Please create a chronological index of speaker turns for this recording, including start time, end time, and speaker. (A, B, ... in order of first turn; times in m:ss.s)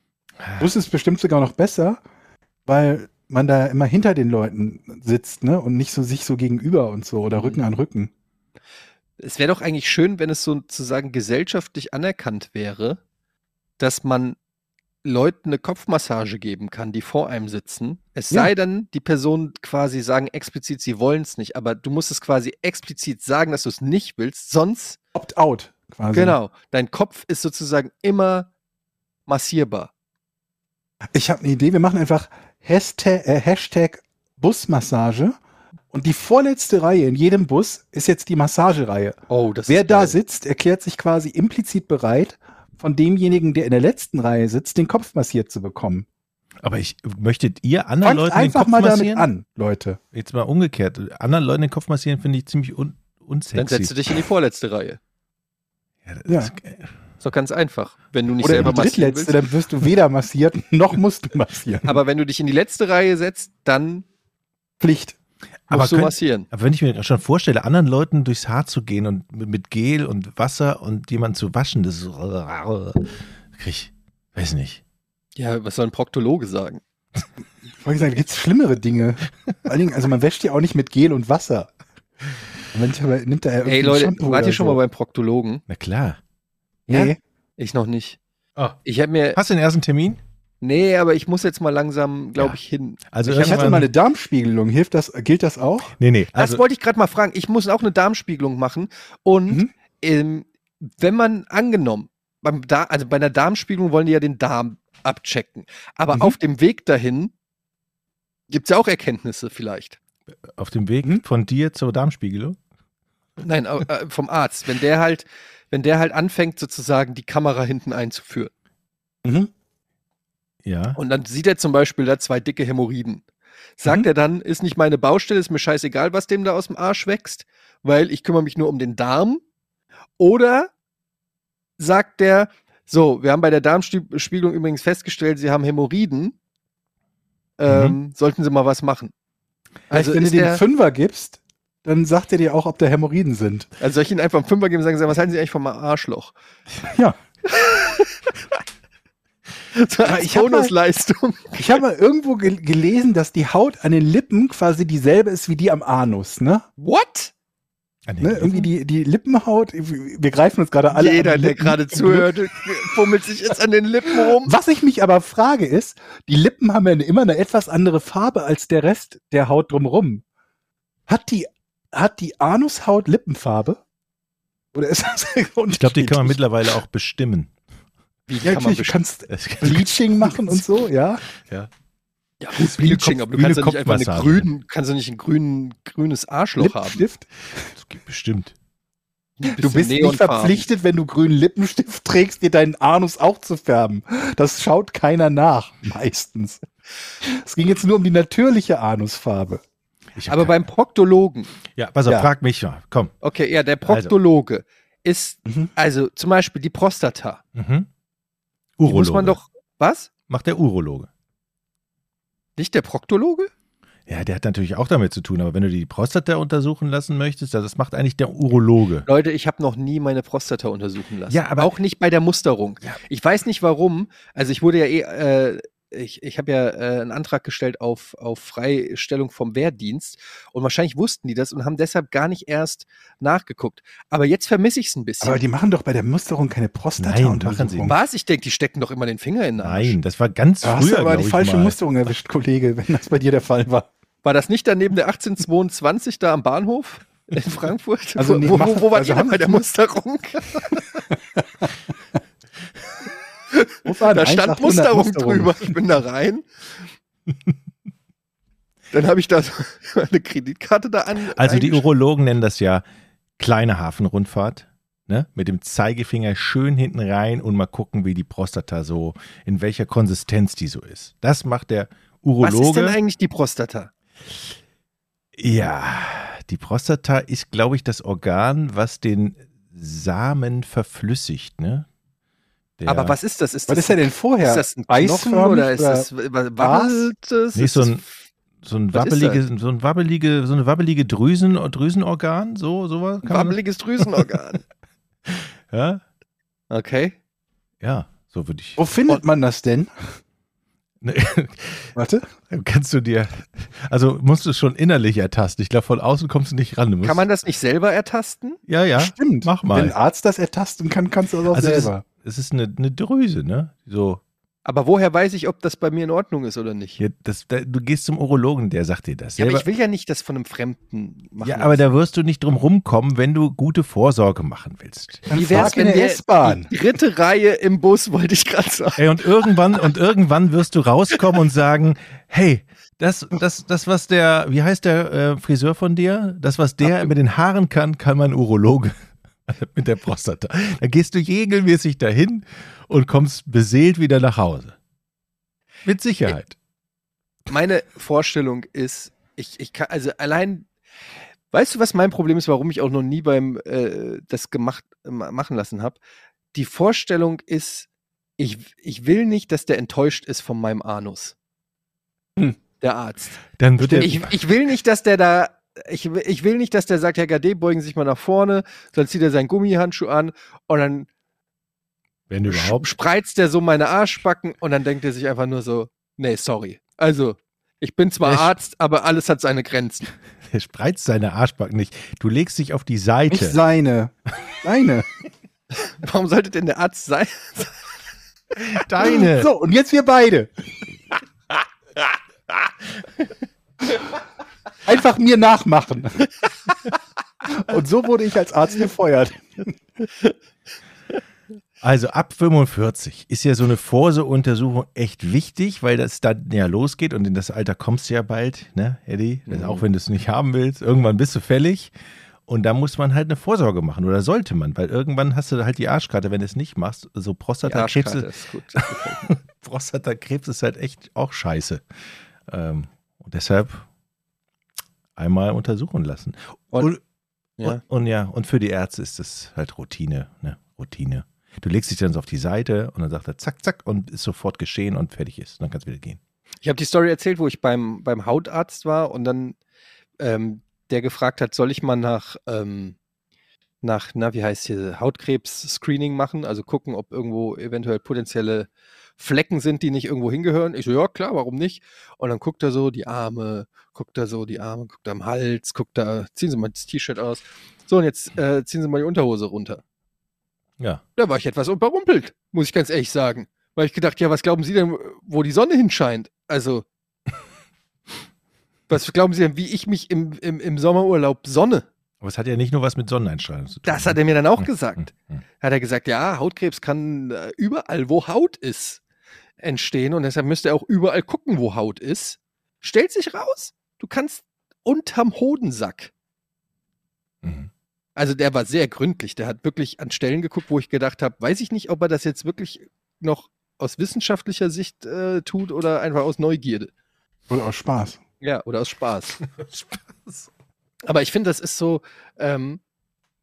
0:00.4-0:00.7 A
0:00.6-0:02.0 B
0:02.6-0:08.1 B
0:09.2-0:13.0 C
0:13.8-0:14.4 C
0:15.0-0:25.0 C
0:25.1-0:26.4 B
0:26.1-0:28.5 C
0:29.3-0:29.9 C
0:31.1-0:35.4 B
0:35.9-0:46.0 B
0:39.3-0:40.2 C
0:46.6-0:49.3 A
0:48.0-0:50.0 B
0:50.1-0:54.2 A
0:53.5-0:55.0 C
0:56.0-0:56.9 A
0:56.3-0:56.5 B
0:57.2-0:59.3 C
0:58.4-1:02.0 B
1:01.8-1:04.0 C
1:04.8-1:05.2 B
1:05.7-1:14.8 A
1:05.7-1:06.5 C
1:15.4-1:16.8 C
1:17.8-1:21.7 B
1:22.7-1:24.8 B
1:23.6-1:25.6 C
1:25.7-1:26.2 A
1:26.9-1:27.2 B
1:26.9-1:28.2 C
1:28.8-1:29.4 C
1:29.3-1:30.2 A
1:30.6-1:33.8 C
1:33.1-1:33.9 A
1:33.4-1:35.9 B
1:36.0-1:36.6 A
1:36.3-1:47.3 C
1:48.5-1:50.0 C
1:50.5-1:52.6 A
1:53.4-1:58.5 C
1:59.2-1:59.5 B
2:00.6-2:01.0 A
2:01.0-2:03.2 C
2:03.8-2:09.4 C
2:10.2-2:10.7 C
2:11.8-2:16.4 C
2:17.6-2:19.1 C
2:17.7-2:18.0 A
2:19.9-2:20.6 C
2:19.9-2:23.7 B
2:23.8-2:26.3 C
2:26.9-2:27.2 B
2:27.5-2:28.3 C
2:29.7-2:31.7 C
2:30.0-2:30.7 B
2:31.6-2:36.6 B
2:36.8-2:37.3 C
2:38.1-2:38.7 A
2:38.2-2:42.3 B
2:40.9-2:44.5 C
2:44.3-2:50.2 B
2:51.1-2:53.8 B
2:54.7-2:56.4 B
2:55.7-2:57.5 A
2:58.3-2:59.0 C
2:58.4-3:01.2 B
2:59.3-3:00.6 A
3:01.3-3:01.7 A
3:02.4-3:07.0 C
3:02.6-3:04.5 A
3:06.6-3:07.7 B
3:07.7-3:08.5 A
3:09.4-3:10.6 C
3:09.5-3:16.6 B
3:17.2-3:19.6 B
3:20.2-3:20.7 A
3:20.3-3:21.5 C
3:21.7-3:23.1 A
3:23.2-3:27.4 C
3:23.8-3:24.1 A
3:27.5-3:27.9 A
3:28.8-3:29.4 A
3:28.8-3:30.1 C
3:30.3-3:31.1 A
3:32.6-3:33.5 C
3:34.1-3:39.1 A
3:39.0-3:55.4 C
3:41.3-3:41.7 A
3:55.2-3:57.9 B
3:57.0-3:57.9 A
3:57.8-4:00.0 C
3:59.6-4:01.8 A
4:00.6-4:03.9 B
4:04.2-4:11.0 C
4:08.2-4:09.6 B
4:11.4-4:11.7 B
4:13.5-4:16.8 C
4:13.8-4:15.7 B
4:18.9-4:21.8 C
4:21.3-4:22.8 A
4:23.4-4:33.0 A
4:32.4-4:33.9 C
4:35.4-4:41.8 A
4:42.8-4:43.2 A
4:42.8-4:48.1 C
4:43.7-4:47.1 B
4:47.5-4:48.0 A
4:48.6-4:54.2 A
4:48.9-4:49.4 C
4:53.2-4:54.6 C
4:55.2-4:56.0 A
4:56.7-4:57.2 C
4:57.8-4:58.8 A
4:58.8-5:00.1 B
5:01.0-5:01.9 A
5:02.0-5:02.3 B
5:02.5-5:07.2 A
5:07.0-5:08.6 C
5:08.7-5:09.9 A
5:09.0-5:12.0 B
5:11.5-5:14.2 A
5:14.6-5:17.0 C
5:17.0-5:19.6 A
5:19.4-5:21.8 C
5:21.4-5:25.7 A
5:25.3-5:26.7 B
5:25.3-5:29.0 C
5:29.0-5:38.9 A
5:39.5-5:44.8 A
5:45.8-5:46.5 A
5:47.5-5:50.7 C
5:51.5-5:56.0 C
5:56.5-6:01.3 C
6:02.8-6:11.1 C
6:03.6-6:04.3 A
6:12.3-6:12.9 A
6:12.4-6:20.1 C
6:20.5-6:23.6 A
6:23.3-6:25.1 B
6:25.8-6:27.8 C
6:28.5-6:29.5 A
6:29.1-6:30.5 B
6:34.8-6:36.3 B
6:37.4-6:39.7 B
6:41.8-6:51.9 A
6:49.5-6:49.8 C
6:52.5-7:01.8 A
6:57.6-6:59.3 C
7:02.5-7:03.8 A
7:05.2-7:07.0 A
7:07.6-7:16.2 A
7:16.6-7:19.6 C
7:20.2-7:23.0 C
7:23.8-7:39.8 C
7:41.2-7:46.8 C
7:48.9-7:51.9 C
7:52.2-7:55.4 A
7:53.8-7:59.0 C
7:59.6-8:06.1 C
8:07.4-8:07.7 A
8:08.2-8:16.9 C
8:17.5-8:18.2 B
8:18.4-8:19.4 C
8:19.4-8:20.5 A
8:21.0-8:22.8 C